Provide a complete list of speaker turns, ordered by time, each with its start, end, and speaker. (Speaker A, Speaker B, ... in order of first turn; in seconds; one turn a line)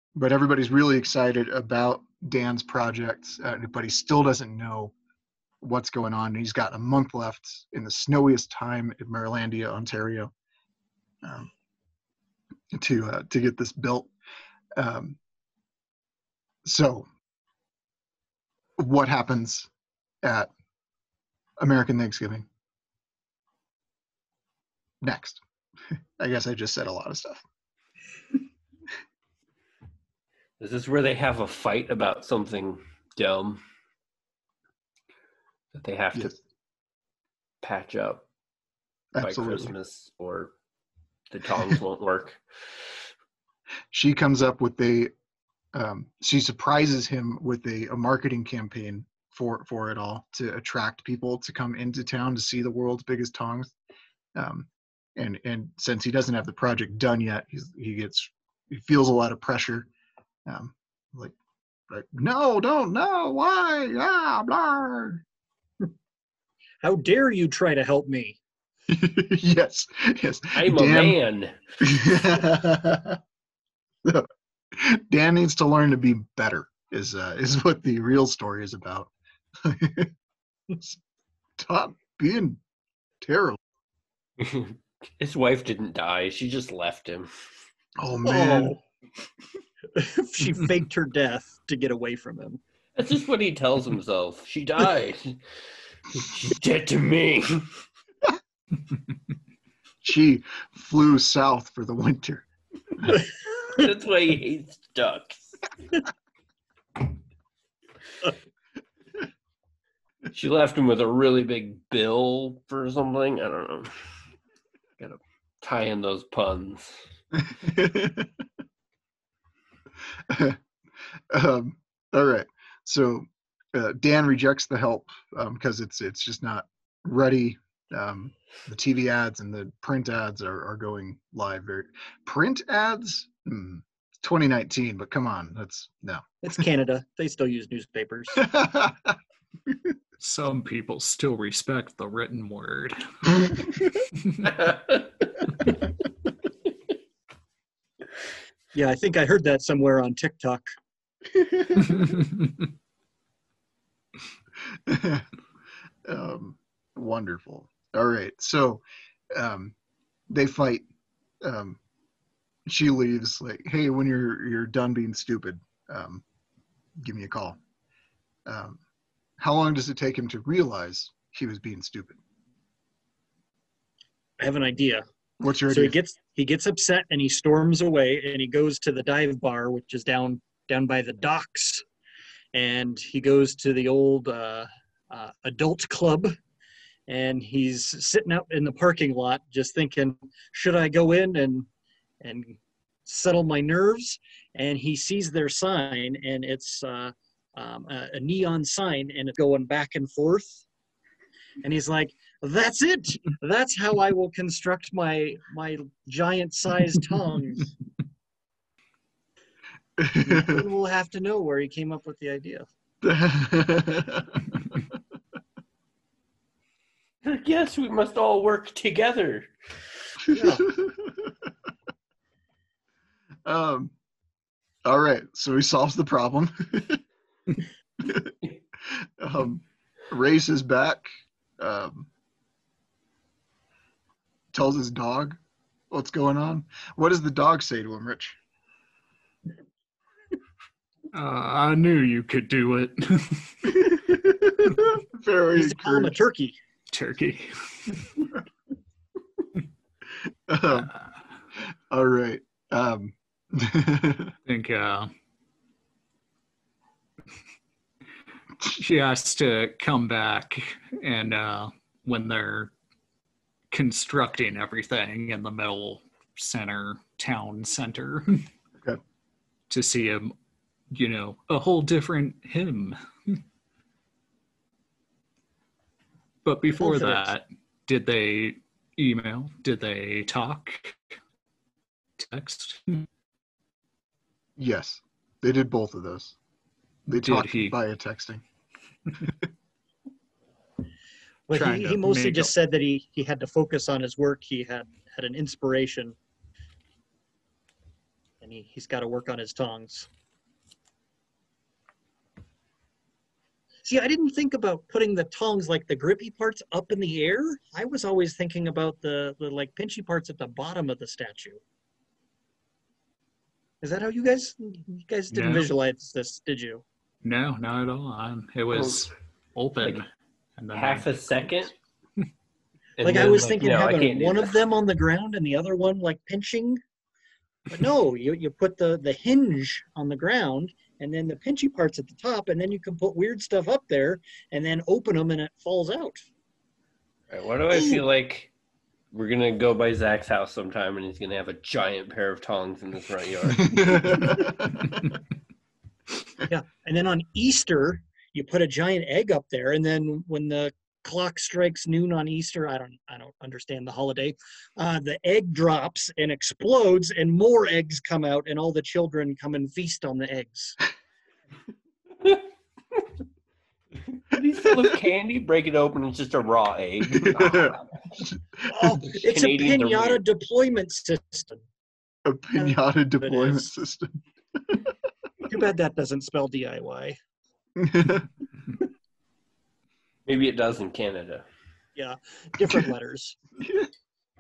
Speaker A: 0.1-4.9
Speaker A: 5.6-10.3
Speaker A: 11.2-11.5
Speaker A: 12.7-14.1
Speaker A: 14.7-15.2
Speaker A: 16.6-17.1
Speaker A: 18.8-19.7
Speaker A: 20.2-20.5
Speaker A: 21.6-22.5
Speaker A: 25.0-25.4
Speaker A: 25.9-27.4
Speaker B: 30.6-33.6
Speaker B: 35.7-36.3
Speaker A: 36.1-36.4
Speaker B: 37.6-38.2
Speaker A: 39.1-39.7
Speaker B: 39.2-40.5
Speaker B: 41.3-42.9
Speaker A: 43.9-45.1
Speaker A: 45.7-53.7
Speaker A: 54.3-59.9
Speaker A: 60.5-61.4
Speaker A: 61.9-65.2
Speaker C: 66.8-68.4
Speaker A: 68.9-71.2
Speaker B: 70.5-71.5
Speaker A: 71.8-73.2
Speaker A: 74.0-80.1
Speaker A: 81.6-82.6
Speaker A: 83.2-83.6
Speaker B: 84.4-87.3
Speaker A: 88.0-88.8
Speaker C: 88.2-88.8
Speaker C: 89.9-92.6
Speaker B: 93.0-95.4
Speaker B: 96.1-97.7
Speaker A: 100.0-102.5
Speaker B: 103.6-105.4
Speaker B: 110.3-114.0
Speaker B: 115.0-117.0
Speaker A: 117.3-118.3
Speaker A: 120.1-120.6
Speaker A: 121.3-136.6
Speaker C: 136.4-138.4
Speaker A: 138.3-139.2
Speaker D: 140.2-144.5
Speaker B: 144.4-145.1
Speaker C: 148.7-150.7
Speaker A: 151.3-152.2
Speaker A: 154.6-155.3
Speaker A: 156.0-159.7
Speaker A: 160.3-160.9
Speaker A: 161.4-161.8
Speaker A: 162.7-166.2
Speaker A: 167.0-167.6
Speaker A: 168.4-168.8
Speaker A: 169.4-172.2
Speaker C: 174.4-175.0
Speaker A: 175.4-175.9
Speaker C: 175.7-181.8
Speaker C: 182.5-186.3
Speaker C: 187.1-191.7
Speaker C: 192.2-200.6
Speaker C: 201.6-207.7
Speaker A: 210.0-210.6
Speaker C: 210.2-212.6
Speaker A: 213.0-215.0
Speaker B: 217.2-219.5
Speaker A: 220.3-221.5
Speaker C: 220.3-220.7
Speaker A: 223.4-223.9
Speaker A: 224.8-227.0
Speaker A: 228.0-231.1
Speaker A: 231.6-232.1
Speaker A: 234.5-235.4
Speaker A: 235.9-238.4
Speaker D: 241.1-243.8
Speaker A: 243.6-246.2
Speaker C: 245.6-246.6
Speaker D: 246.9-248.2
Speaker A: 250.2-250.9
Speaker A: 251.6-254.3
Speaker D: 254.4-255.1
Speaker D: 258.6-262.7
Speaker D: 263.7-268.4
Speaker D: 269.7-270.3
Speaker D: 270.9-273.4
Speaker D: 276.4-281.1
Speaker C: 276.8-277.3
Speaker D: 282.2-283.1
Speaker A: 284.6-286.4
Speaker A: 287.1-288.4
Speaker D: 287.1-287.8
Speaker C: 291.5-296.1
Speaker D: 291.5-292.5
Speaker C: 298.4-300.1
Speaker C: 303.8-311.6
Speaker C: 313.8-316.8
Speaker D: 315.3-315.7
Speaker D: 317.2-321.7
Speaker B: 318.7-319.0
Speaker B: 320.7-321.7
Speaker B: 323.0-324.6
Speaker C: 323.0-326.8
Speaker C: 327.7-336.2
Speaker B: 337.3-338.5
Speaker B: 339.1-344.5
Speaker A: 343.5-345.1
Speaker C: 346.5-360.8
Speaker B: 364.1-368.0
Speaker A: 367.1-368.9
Speaker C: 368.7-371.6
Speaker B: 369.1-370.2
Speaker A: 372.2-374.9
Speaker C: 372.5-373.7
Speaker C: 375.4-377.2
Speaker A: 377.8-378.3
Speaker B: 380.2-381.4
Speaker C: 381.9-383.4
Speaker A: 383.6-383.9